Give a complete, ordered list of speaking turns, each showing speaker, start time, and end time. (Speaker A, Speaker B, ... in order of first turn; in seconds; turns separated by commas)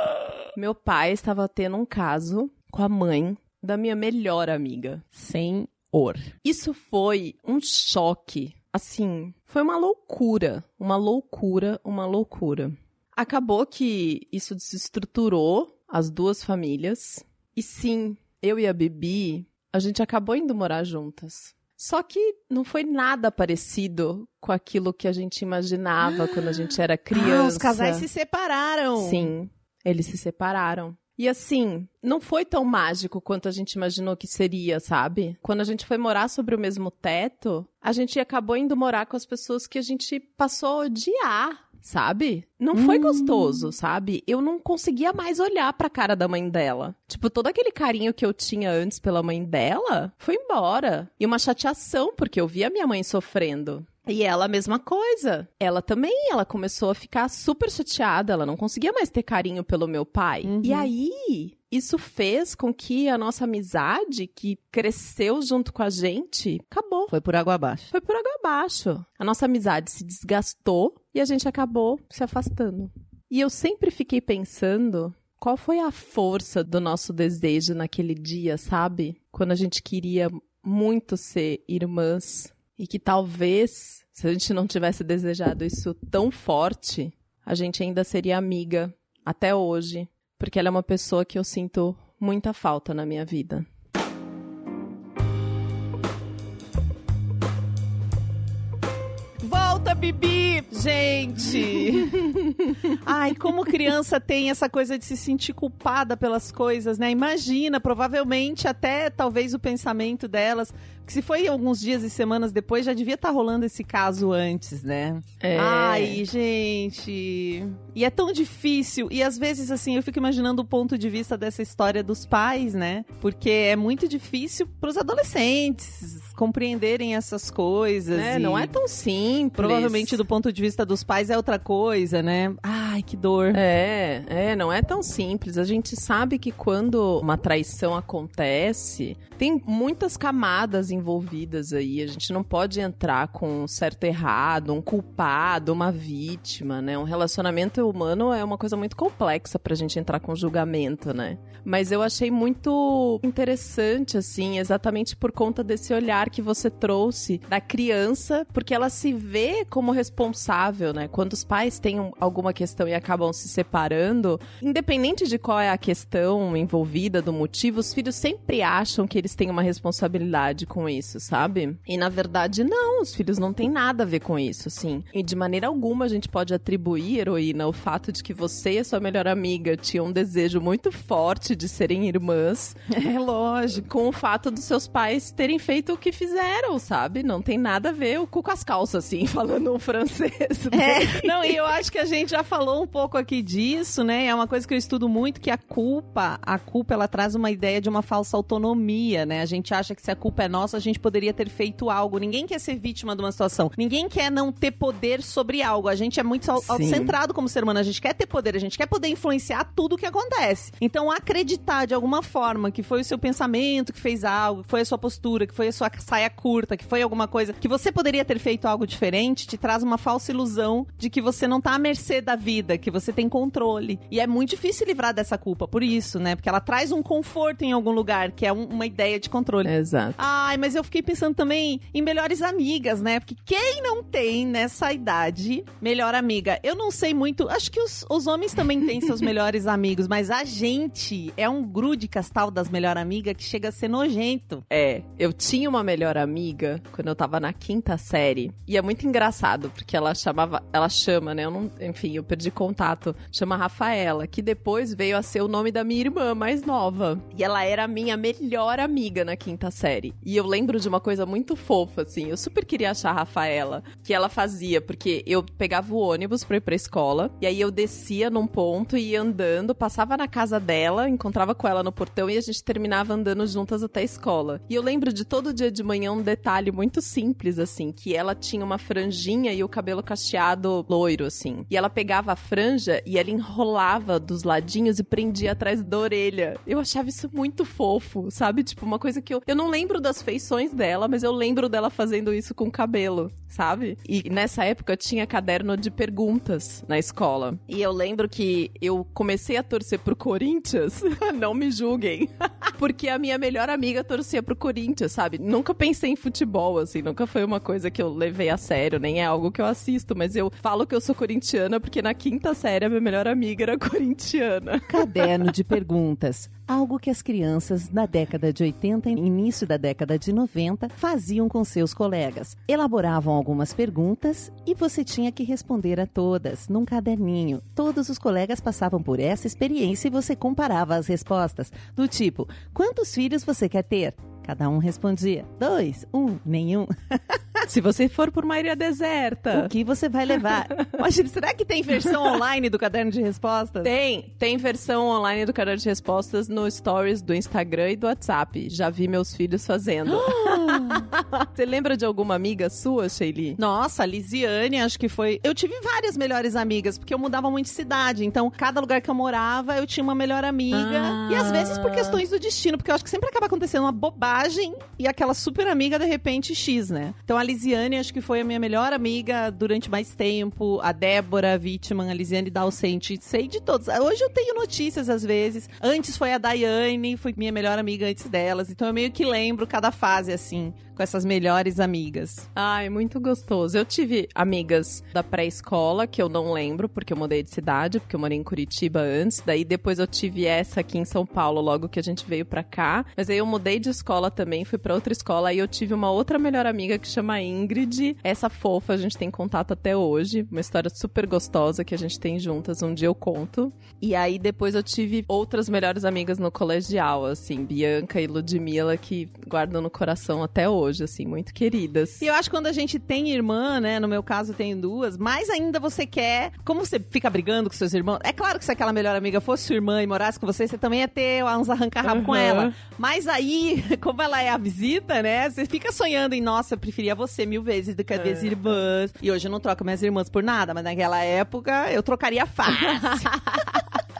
Speaker A: 0.5-5.0, Speaker B: 5.1-6.3, Speaker A: 6.4-28.0, Speaker B: 26.0-29.3, Speaker A: 29.0-67.1, Speaker B: 42.7-43.7, Speaker B: 60.4-60.9, Speaker B: 67.1-67.9, Speaker A: 67.9-93.7, Speaker B: 99.4-128.7, Speaker A: 115.4-116.2, Speaker A: 128.1-130.2, Speaker B: 129.6-133.6, Speaker A: 133.5-182.8, Speaker B: 182.9-183.8, Speaker A: 183.7-191.5, Speaker B: 190.7-244.6, Speaker A: 206.6-207.2, Speaker A: 229.6-230.2, Speaker A: 244.7-315.3, Speaker B: 314.9-337.4, Speaker A: 337.6-339.7, Speaker B: 339.5-343.9, Speaker A: 343.8-353.6, Speaker B: 350.1-351.1, Speaker B: 353.6-382.4, Speaker A: 360.7-362.2, Speaker A: 382.5-412.3, Speaker B: 412.2-433.6, Speaker A: 422.1-422.7, Speaker A: 428.1-428.6, Speaker A: 432.7-433.8